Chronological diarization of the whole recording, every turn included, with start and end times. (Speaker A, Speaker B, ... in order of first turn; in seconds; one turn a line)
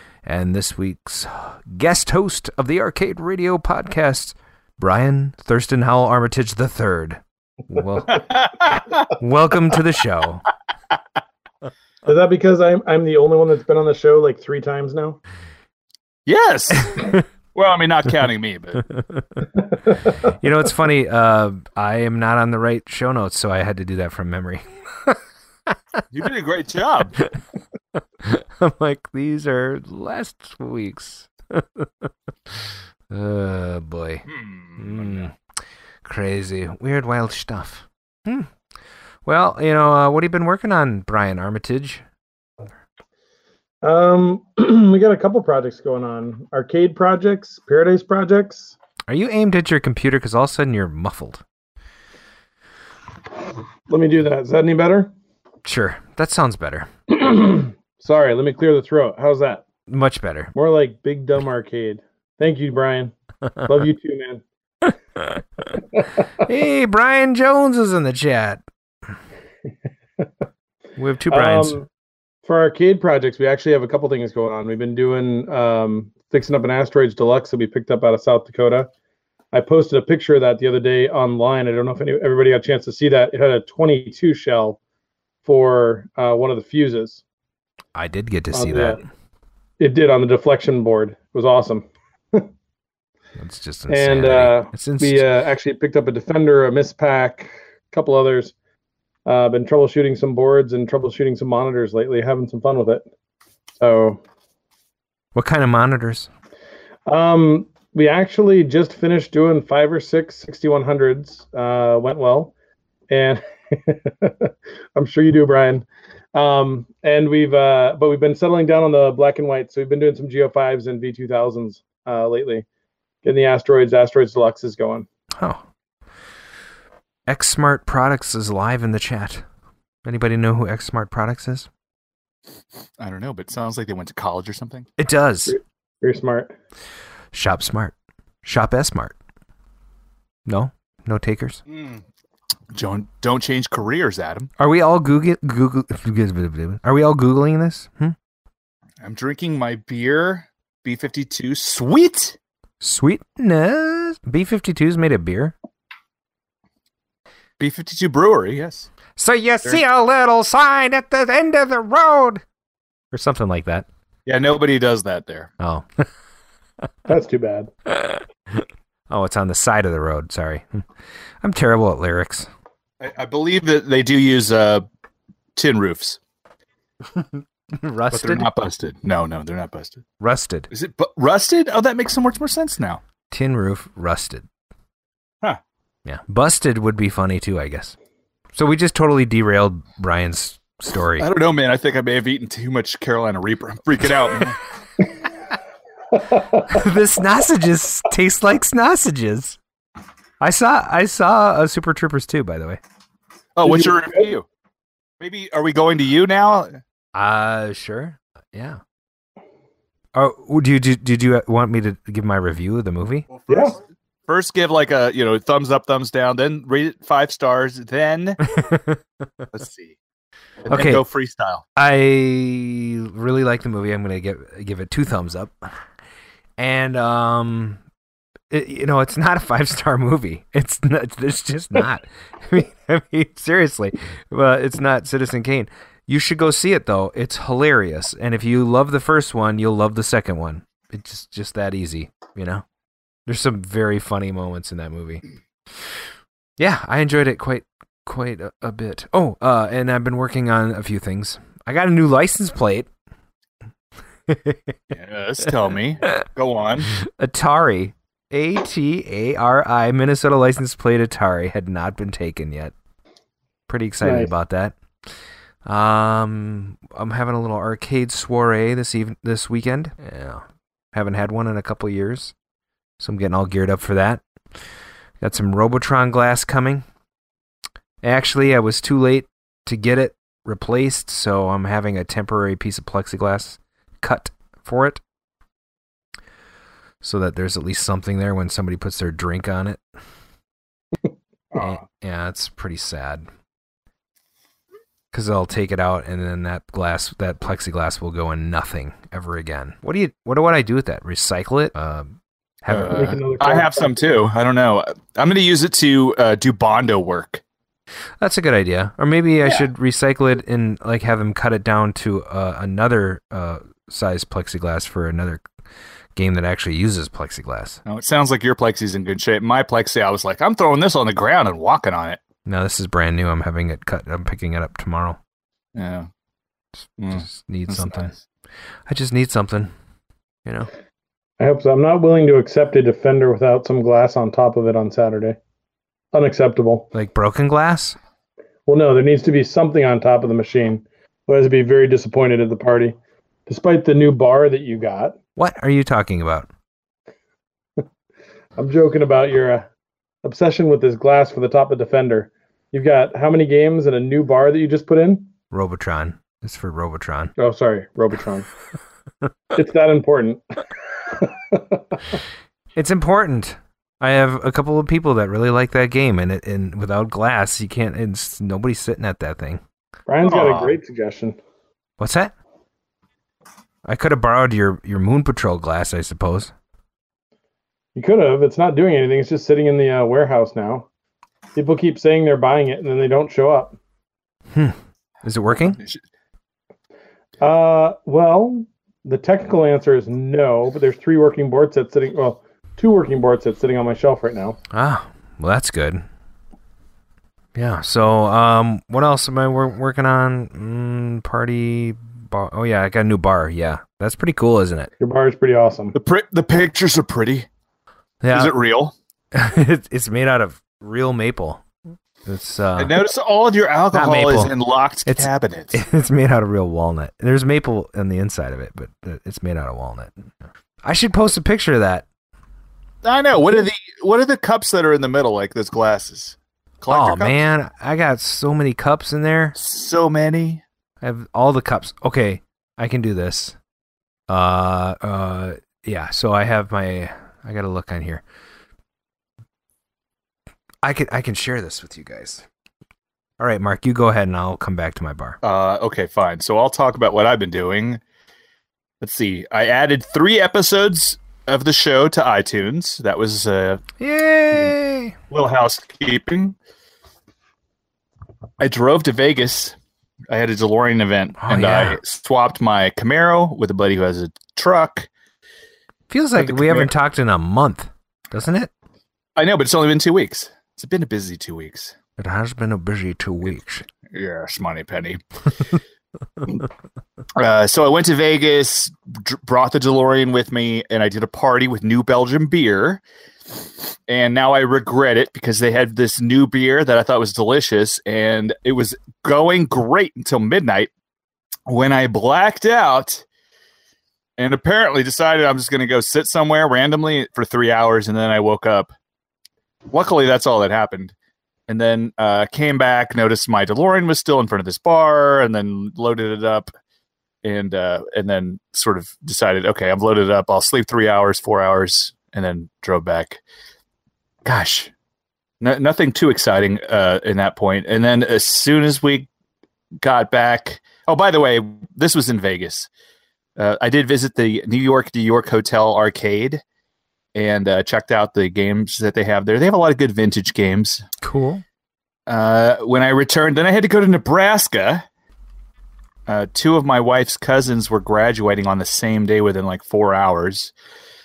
Speaker A: 0.2-8.2
Speaker B: 8.1-9.1
Speaker A: 9.2-10.4
Speaker C: 12.0-15.2
Speaker B: 16.2-18.8
Speaker A: 19.0-19.2
Speaker C: 19.9-20.1
Speaker A: 20.4-25.2
Speaker B: 26.1-27.2
Speaker A: 28.2-32.1
Speaker A: 33.1-34.2
Speaker B: 34.2-35.3
Speaker A: 34.8-35.3
Speaker A: 36.0-38.5
Speaker A: 39.2-42.0
Speaker C: 43.8-48.8
Speaker A: 49.1-51.4
Speaker C: 53.9-55.1
Speaker A: 55.6-56.9
Speaker C: 57.1-59.6
Speaker A: 59.9-60.5
Speaker C: 60.5-63.1
Speaker C: 63.6-64.4
Speaker A: 66.4-68.6
Speaker A: 71.0-71.8
Speaker C: 71.3-71.9
Speaker C: 72.5-78.9
Speaker C: 79.5-84.8
Speaker C: 85.4-87.2
Speaker A: 87.9-89.0
Speaker C: 88.5-89.0
Speaker C: 89.8-92.5
Speaker A: 93.4-95.2
Speaker C: 93.9-98.5
Speaker C: 99.2-103.0
Speaker C: 103.8-104.2
Speaker A: 105.3-106.3
Speaker C: 107.1-112.5
Speaker C: 113.1-122.6
Speaker C: 123.2-125.0
Speaker A: 125.3-125.6
Speaker A: 127.3-129.4
Speaker A: 130.0-131.7
Speaker B: 133.0-134.9
Speaker A: 135.0-135.6
Speaker C: 135.5-136.5
Speaker A: 137.3-139.2
Speaker A: 140.5-141.6
Speaker B: 141.7-142.0
Speaker B: 142.7-144.5
Speaker A: 144.6-148.1
Speaker B: 149.0-152.3
Speaker A: 152.8-155.5
Speaker B: 157.6-158.9
Speaker A: 159.2-162.4
Speaker A: 163.1-163.8
Speaker B: 164.2-165.5
Speaker A: 165.6-166.1
Speaker C: 167.1-167.7
Speaker A: 167.9-170.8
Speaker A: 171.4-172.5
Speaker B: 173.0-174.8
Speaker B: 175.6-176.2
Speaker A: 177.8-178.5
Speaker B: 178.1-180.0
Speaker A: 180.2-180.7
Speaker B: 180.7-183.0
Speaker A: 183.3-184.5
Speaker A: 186.0-187.9
Speaker A: 188.5-191.3
Speaker B: 191.2-194.6
Speaker C: 196.2-196.8
Speaker A: 196.7-199.6
Speaker A: 200.4-202.8
Speaker B: 203.6-204.4
Speaker C: 203.6-204.2
Speaker B: 205.2-206.8
Speaker A: 207.1-208.8
Speaker A: 210.1-213.3
Speaker B: 213.3-213.7
Speaker C: 213.5-213.7
Speaker B: 214.3-218.4
Speaker A: 218.5-219.0
Speaker B: 219.5-219.9
Speaker B: 220.6-221.6
Speaker A: 220.7-221.0
Speaker A: 221.8-225.6
Speaker A: 226.6-227.8
Speaker A: 228.5-242.6
Speaker A: 243.3-245.2
Speaker A: 246.6-252.9
Speaker A: 254.3-254.7
Speaker B: 254.9-256.9
Speaker A: 257.0-262.7
Speaker A: 263.7-264.7
Speaker C: 264.0-264.3
Speaker A: 265.6-272.3
Speaker A: 273.0-274.2
Speaker A: 275.2-276.8
Speaker A: 278.0-285.0
Speaker A: 287.0-289.8
Speaker A: 291.5-293.3
Speaker A: 295.1-303.1
Speaker B: 302.7-307.4
Speaker C: 302.9-303.9
Speaker A: 308.2-315.4
Speaker A: 316.1-317.8
Speaker B: 317.8-322.2
Speaker A: 322.4-325.2
Speaker B: 325.7-326.1
Speaker B: 327.0-328.2
Speaker A: 327.0-328.1
Speaker A: 328.9-329.7
Speaker A: 330.4-330.7
Speaker C: 331.4-335.4
Speaker C: 336.1-336.9
Speaker A: 336.9-338.0
Speaker C: 338.7-342.9
Speaker C: 343.5-345.1
Speaker A: 345.4-346.5
Speaker C: 348.6-349.7
Speaker C: 350.2-355.3
Speaker A: 355.5-357.3
Speaker C: 357.4-358.5
Speaker C: 359.5-360.4
Speaker C: 361.1-362.0
Speaker A: 362.7-369.6
Speaker C: 370.1-371.4
Speaker B: 370.2-370.8
Speaker A: 372.0-372.3
Speaker A: 373.8-376.5
Speaker C: 377.9-380.9
Speaker C: 381.5-383.8
Speaker A: 384.5-385.8
Speaker B: 385.7-386.0
Speaker C: 387.4-394.6
Speaker A: 394.7-396.0
Speaker A: 397.5-404.9
Speaker C: 405.0-405.9
Speaker B: 405.9-407.5
Speaker A: 408.2-408.5
Speaker B: 408.3-408.9
Speaker A: 409.3-411.6
Speaker A: 412.2-412.9
Speaker B: 412.8-415.8
Speaker A: 413.9-414.5
Speaker A: 415.1-420.3
Speaker A: 420.8-422.1
Speaker B: 423.0-427.4
Speaker A: 426.9-429.6
Speaker B: 429.6-430.6
Speaker A: 431.0-433.6
Speaker A: 434.3-438.2
Speaker A: 440.8-442.4
Speaker A: 443.4-445.4
Speaker B: 445.4-448.0
Speaker B: 449.0-453.8
Speaker A: 454.0-455.1
Speaker B: 455.3-456.6
Speaker B: 458.6-459.8
Speaker B: 460.3-465.1
Speaker A: 461.4-462.0
Speaker A: 466.1-468.7
Speaker B: 466.4-466.9
Speaker B: 469.4-471.9
Speaker A: 472.2-473.9
Speaker B: 474.1-475.2
Speaker B: 477.4-483.0
Speaker B: 484.1-490.9
Speaker B: 491.7-493.2
Speaker B: 494.4-498.9
Speaker B: 499.9-501.1
Speaker B: 501.7-506.7
Speaker B: 507.4-513.4
Speaker B: 514.4-514.9
Speaker B: 515.6-519.3
Speaker B: 520.0-522.9
Speaker B: 523.6-526.6
Speaker B: 527.3-531.0
Speaker A: 531.2-531.6
Speaker B: 532.3-535.0
Speaker B: 536.3-540.7